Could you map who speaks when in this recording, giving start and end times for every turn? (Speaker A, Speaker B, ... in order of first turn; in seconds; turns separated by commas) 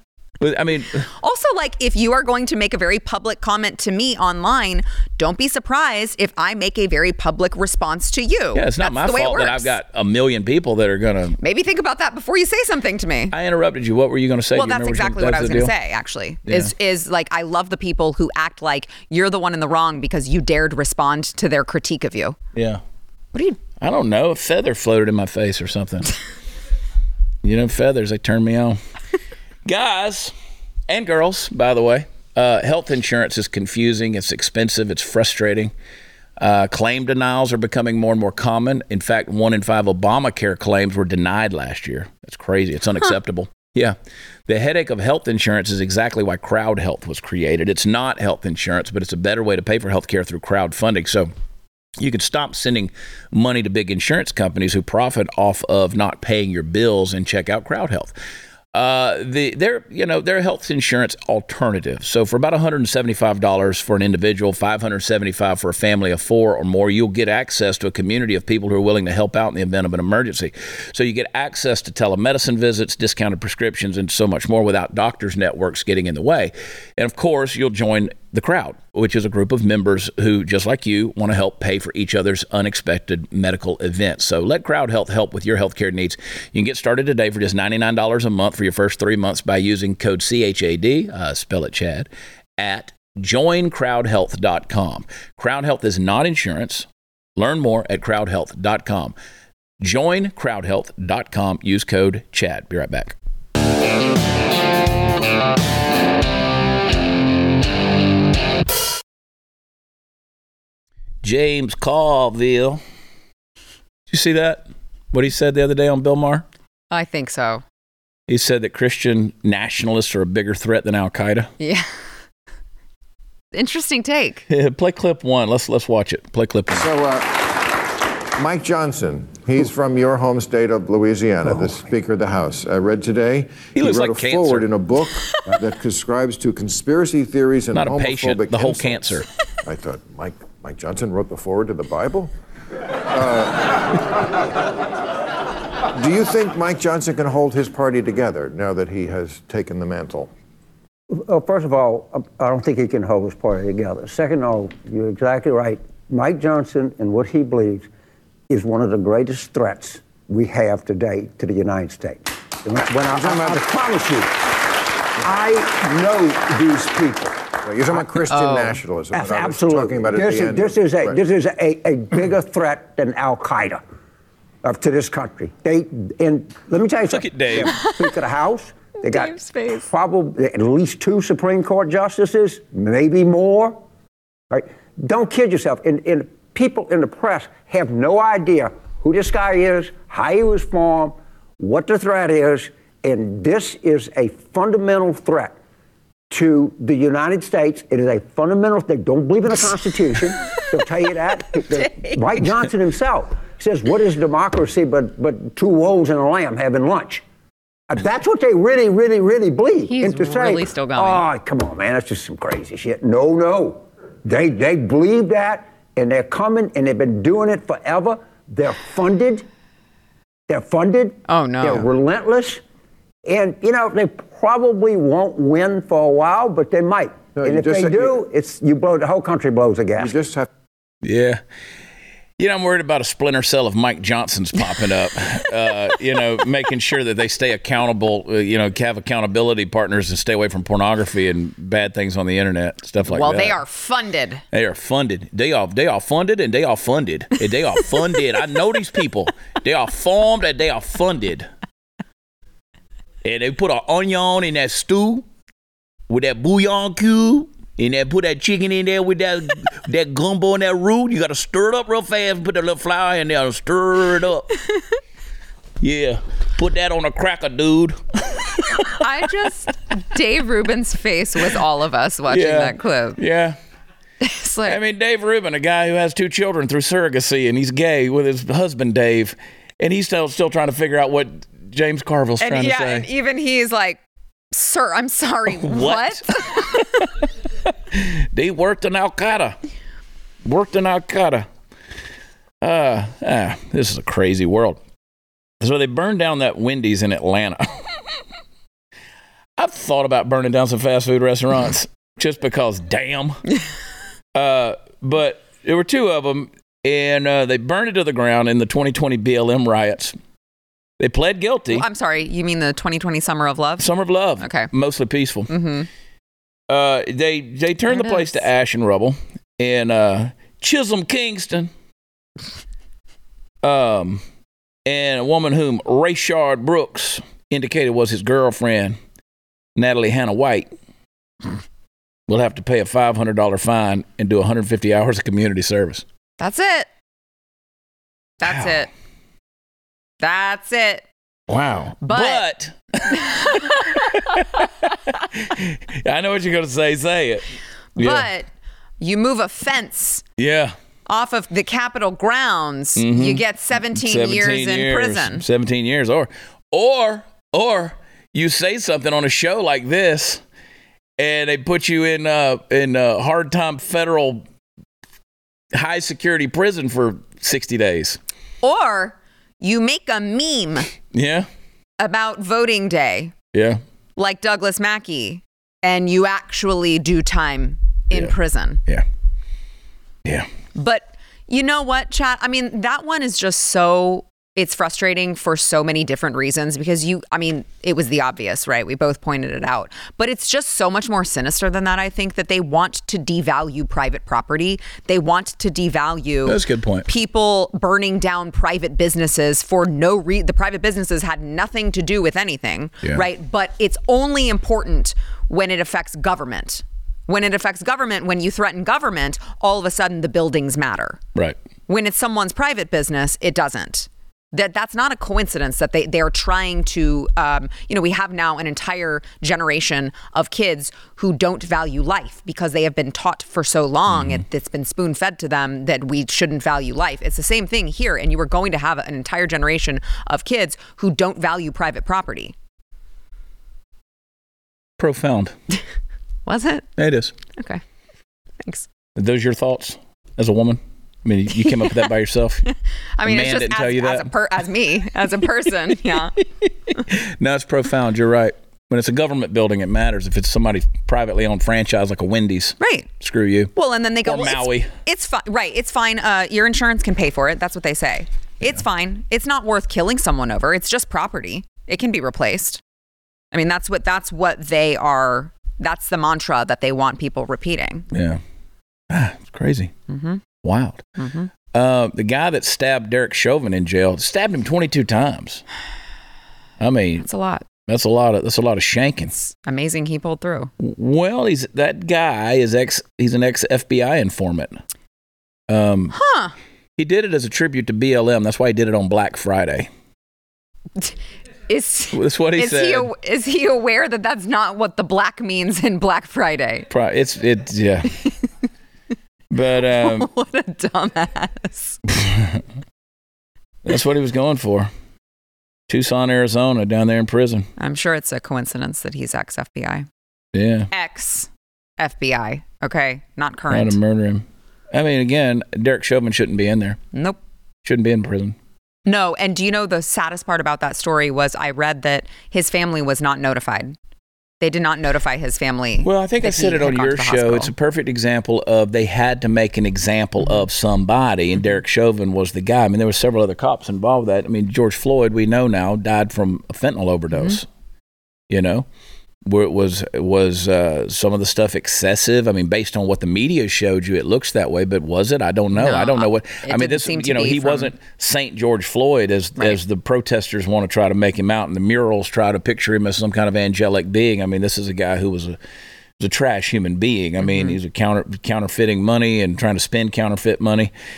Speaker A: 0.4-1.1, Speaker B: 1.1-9.7, Speaker A: 8.5-11.4, Speaker B: 11.4-13.3, Speaker A: 13.3-15.7, Speaker B: 14.6-22.4, Speaker A: 16.5-16.7, Speaker A: 22.5-22.8, Speaker B: 23.3-23.6, Speaker A: 23.8-26.1, Speaker A: 27.4-28.8, Speaker A: 29.6-30.3, Speaker A: 30.9-35.7, Speaker A: 36.4-44.0, Speaker A: 44.5-51.3, Speaker A: 52.0-58.1, Speaker A: 58.7-99.2, Speaker A: 99.8-103.2, Speaker A: 111.2-112.8, Speaker A: 114.1-116.5, Speaker B: 116.9-117.6, Speaker A: 118.3-121.5, Speaker B: 121.6-121.9, Speaker B: 123.5-124.5, Speaker A: 124.5-126.9, Speaker C: 126.7-127.8, Speaker C: 128.4-142.3, Speaker A: 133.8-134.7, Speaker A: 137.7-139.3, Speaker C: 143.1-144.4, Speaker C: 145.9-150.3, Speaker D: 151.1-157.9, Speaker D: 158.5-164.5, Speaker C: 163.1-163.6, Speaker D: 165.2-167.5, Speaker C: 167.6-171.2, Speaker B: 168.3-168.8, Speaker D: 169.1-173.8, Speaker D: 174.6-183.8, Speaker A: 177.1-177.8, Speaker B: 179.0-179.9, Speaker D: 184.5-195.6, Speaker D: 196.3-207.2, Speaker B: 201.7-202.2, Speaker D: 207.9-219.4, Speaker B: 209.9-211.2, Speaker D: 220.5-222.6, Speaker B: 221.3-221.9, Speaker D: 223.2-230.2, Speaker C: 227.3-228.2, Speaker C: 230.0-230.5, Speaker A: 231.0-231.4, Speaker A: 232.4-243.6, Speaker B: 243.1-244.4, Speaker A: 244.5-251.5, Speaker A: 253.2-255.3, Speaker A: 256.1-264.5, Speaker A: 265.8-269.0, Speaker B: 268.9-273.2, Speaker A: 272.3-273.6, Speaker B: 274.2-274.8, Speaker A: 274.7-283.1, Speaker B: 282.4-284.0, Speaker B: 284.5-287.1, Speaker A: 285.5-287.1, Speaker A: 287.6-289.6, Speaker A: 290.4-291.5, Speaker A: 292.6-294.8, Speaker A: 295.6-298.2, Speaker A: 299.6-303.4, Speaker A: 304.4-310.1, Speaker A: 311.0-311.9, Speaker B: 311.7-313.9, Speaker A: 313.8-315.5, Speaker B: 314.4-314.7, Speaker B: 315.5-315.9, Speaker A: 316.7-321.7, Speaker B: 317.9-318.3, Speaker A: 323.6-324.2, Speaker A: 324.9-329.0, Speaker A: 329.8-330.7, Speaker A: 332.3-336.1, Speaker B: 336.4-336.9, Speaker B: 338.4-338.9, Speaker B: 340.2-341.1, Speaker A: 341.5-347.4, Speaker B: 342.0-342.4, Speaker B: 343.1-344.4, Speaker A: 348.0-348.3, Speaker B: 348.0-348.5, Speaker B: 349.0-350.2, Speaker A: 350.4-350.8, Speaker B: 351.1-355.4, Speaker A: 353.0-360.4, Speaker A: 361.2-364.4, Speaker A: 365.7-368.2, Speaker B: 368.6-370.9, Speaker A: 371.1-371.5, Speaker B: 372.0-373.3, Speaker A: 373.5-373.8, Speaker B: 374.2-378.8, Speaker B: 380.8-411.2, Speaker A: 396.4-397.1, Speaker B: 411.9-432.6, Speaker A: 424.1-424.4, Speaker A: 435.0-435.5, Speaker B: 436.4-436.9, Speaker A: 437.0-437.3, Speaker B: 437.6-437.8, Speaker A: 439.2-442.6, Speaker B: 441.7-442.0, Speaker B: 442.7-446.4, Speaker A: 443.2-444.3, Speaker A: 446.6-453.7, Speaker B: 452.8-453.1, Speaker B: 453.7-462.8, Speaker A: 454.2-454.9, Speaker B: 463.5-468.1, Speaker A: 468.1-468.4, Speaker A: 469.1-469.9, Speaker B: 470.1-470.4, Speaker A: 470.6-471.1, Speaker B: 471.2-471.5, Speaker A: 471.7-475.6, Speaker A: 476.8-477.3, Speaker B: 477.2-477.7, Speaker A: 477.9-479.3, Speaker B: 479.3-480.7, Speaker A: 480.8-484.8, Speaker A: 485.7-486.1, Speaker B: 486.1-486.5, Speaker A: 487.0-489.9, Speaker B: 491.7-496.9, Speaker A: 492.1-493.1, Speaker A: 496.9-498.2, Speaker A: 499.5-500.3, Speaker B: 499.9-502.0, Speaker A: 502.1-502.6, Speaker A: 503.8-504.9, Speaker A: 505.9-507.7, Speaker B: 507.8-510.1, Speaker A: 510.5-510.9, Speaker B: 510.9-514.0, Speaker A: 513.7-517.0, Speaker B: 517.1-517.4, Speaker A: 517.8-518.6, Speaker B: 519.1-524.0, Speaker B: 524.6-527.7, Speaker A: 526.0-537.7, Speaker A: 538.5-538.9, Speaker A: 539.5-555.6, Speaker B: 545.7-547.9, Speaker A: 556.2-560.9, Speaker B: 557.5-557.8